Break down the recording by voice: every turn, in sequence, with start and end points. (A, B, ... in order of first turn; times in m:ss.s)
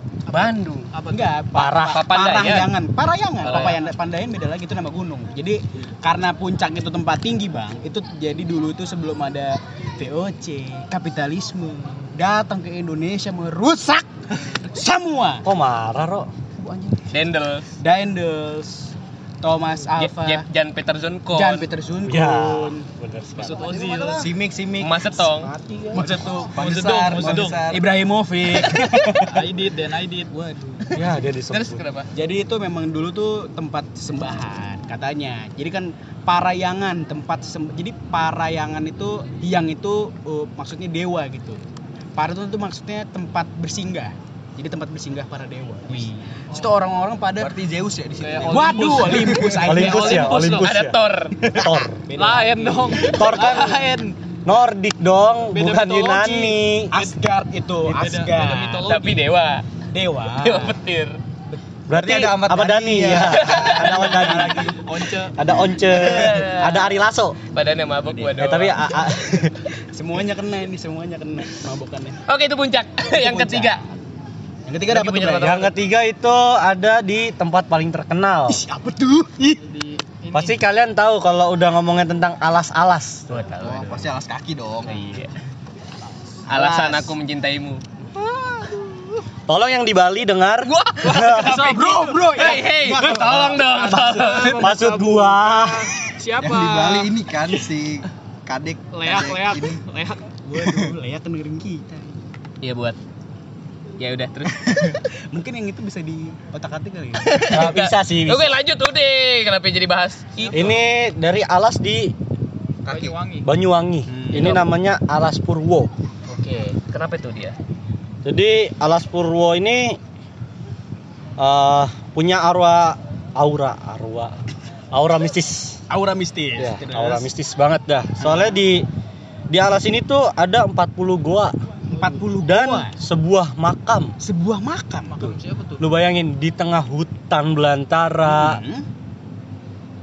0:00.3-0:00.9 A
0:00.9-0:01.4 B
0:01.0-0:15.4 C
0:01.5-0:02.0 D
0:01.9-0:02.7 A
0:03.4-0:03.8 A
0:15.4-0:16.3 D
0:16.6-0:17.1 C
0:17.1-0:17.6 A
0:17.8-0:20.4 C
0:20.0-0:21.7 A
0:21.3-0:24.3 C
0:22.0-0:23.7 D
0:23.4-0:24.3 B
0:24.2-0:25.0 E
0:24.8-0:25.5 A
0:25.9-0:26.6 C
0:26.0-0:27.6 B
0:26.5-0:27.9 E
0:27.1-0:29.4 C
0:29.2-0:30.9 B
0:30.9-0:31.8 D
0:31.0-0:32.1 A
0:32.1-0:41.6 C
0:42.2-0:47.5 C
0:47.4-0:49.8 E
0:48.2-0:50.6 B
0:48.4-0:50.5 C
0:49.6-0:51.0 D
0:50.1-0:51.6 A
0:51.5-0:52.0 D
0:52.1-0:53.2 C
0:52.1-0:54.2 B
0:53.0-0:53.8 D
0:54.4-0:57.0 D
0:55.5-0:56.5 B
0:56.9-0:58.9 C
0:57.9-0:59.3 B
0:58.8-0:59.6 A
0:59.9-1:00.8 C
1:00.4-1:01.2 A
1:01.9-1:04.7 D
1:01.9-1:04.2 E
1:03.4-1:03.8 A
1:03.8-1:05.4 B
1:04.0-1:04.8 C
1:05.3-1:07.4 D
1:05.8-1:06.9 A
1:07.5-1:08.8 A
1:08.3-1:09.6 D
1:09.9-1:12.2 C
1:12.3-1:13.8 A
1:13.1-1:13.8 C
1:14.7-1:15.6 C
1:14.9-1:15.7 A
1:15.4-1:18.6 D
1:18.5-1:19.6 C
1:19.6-1:20.6 B
1:20.3-1:23.4 D
1:23.3-1:24.1 A
1:23.6-1:25.0 E
1:24.9-1:25.3 A
1:26.4-1:27.1 C
1:26.5-1:27.8 A
1:29.5-1:31.6 D
1:30.7-1:31.6 A
1:31.0-1:32.6 B
1:31.2-1:34.4 C
1:32.3-1:34.7 A
1:33.8-1:37.1 B
1:34.2-1:35.9 D
1:36.4-1:39.8 E
1:38.9-1:40.3 B
1:40.4-1:42.2 C
1:42.6-1:43.0 A
1:44.0-1:45.0 A
1:45.3-1:47.4 C
1:47.2-1:50.7 A
1:47.5-1:48.5 D
1:50.4-1:50.8 B
1:50.5-1:52.1 D
1:52.8-1:53.5 B
1:53.4-1:55.9 D
1:54.1-1:54.6 C
1:56.3-1:57.6 A
1:58.2-2:00.0 D
2:01.4-2:04.4 D
2:04.9-2:05.8 D
2:05.9-2:07.3 C
2:06.6-2:08.8 D
2:08.2-2:08.5 C
2:09.5-2:11.5 D
2:11.9-2:13.0 C
2:12.2-2:14.1 D
2:14.2-2:15.4 C
2:15.1-2:15.9 B
2:15.8-2:18.6 D
2:18.2-2:18.8 C